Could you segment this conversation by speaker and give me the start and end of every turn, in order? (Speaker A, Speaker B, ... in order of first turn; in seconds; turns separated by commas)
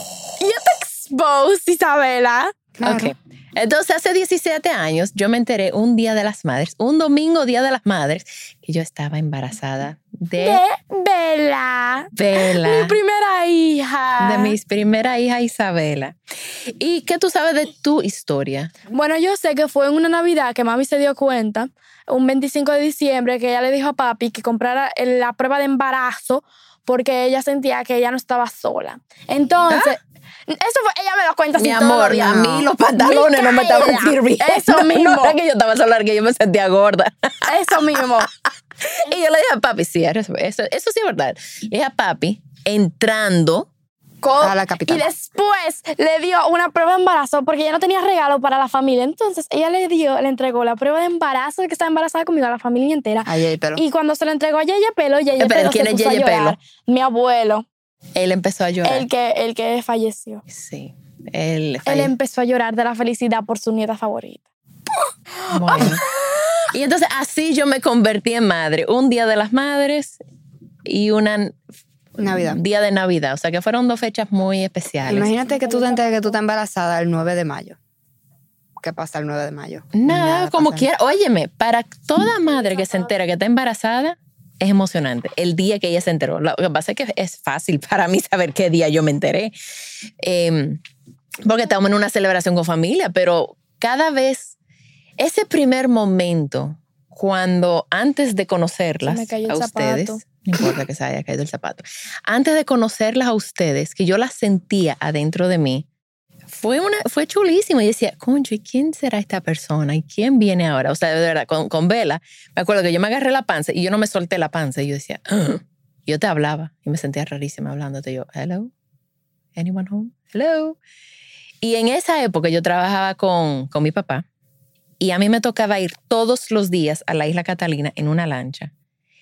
Speaker A: 0.4-2.5, Speaker B: 2.8-3.1, Speaker C: 2.8-10.6, Speaker A: 10.4-14.6, Speaker C: 12.2-13.0, Speaker C: 14.2-18.7, Speaker A: 18.9-35.4, Speaker C: 29.7-29.9, Speaker C: 31.6-38.0, Speaker A: 37.5-38.3, Speaker C: 38.8-43.7, Speaker A: 44.2-57.7, Speaker B: 44.4-45.1, Speaker B: 53.3-53.8, Speaker C: 55.4-56.6, Speaker C: 58.1-59.1, Speaker A: 58.8-60.4, Speaker C: 60.5-62.1, Speaker A: 61.9-64.4, Speaker A: 65.4-66.0, Speaker C: 65.5-66.0, Speaker C: 66.7-70.2, Speaker C: 70.8-71.6, Speaker B: 72.2-72.6, Speaker C: 72.4-75.3, Speaker B: 75.1-77.8, Speaker A: 75.1-76.4, Speaker B: 78.8-80.9, Speaker C: 79.9-89.5, Speaker A: 82.5-83.2, Speaker C: 90.2-90.8, Speaker C: 91.4-94.5, Speaker C: 95.2-105.9, Speaker A: 99.0-100.2, Speaker C: 106.5-118.7, Speaker C: 119.6-120.8, Speaker C: 121.6-124.2, Speaker C: 125.0-128.7